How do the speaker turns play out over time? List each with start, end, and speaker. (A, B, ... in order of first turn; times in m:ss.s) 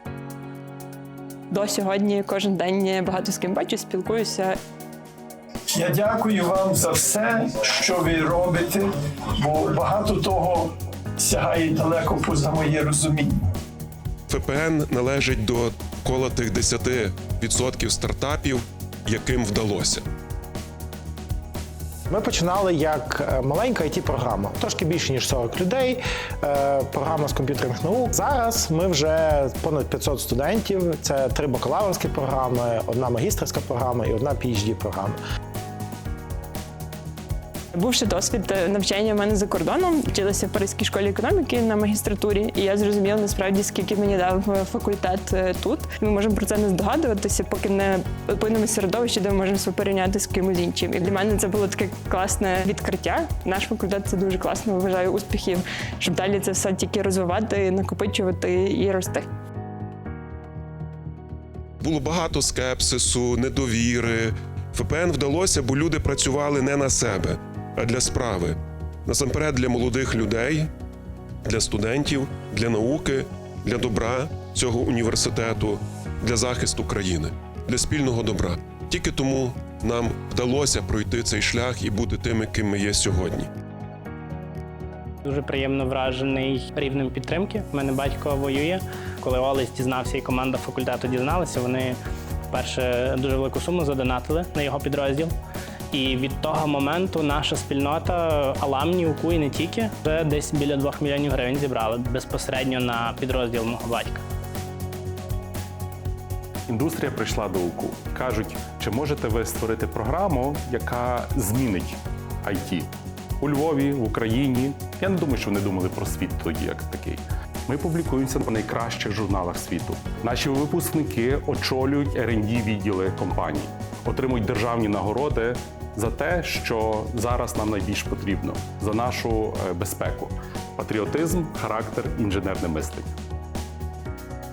0:01.5-0:04.6 A
0:05.7-0:13.4 B
0:14.3-0:20.0 C
0:22.1-0:35.2 D
0:37.8-0:59.3 A
1:01.8-1:10.7 C
1:11.4-1:23.5 C
1:25.2-1:32.0 E
1:32.5-1:35.3 E
1:35.9-1:44.2 E
1:46.7-2:13.1 F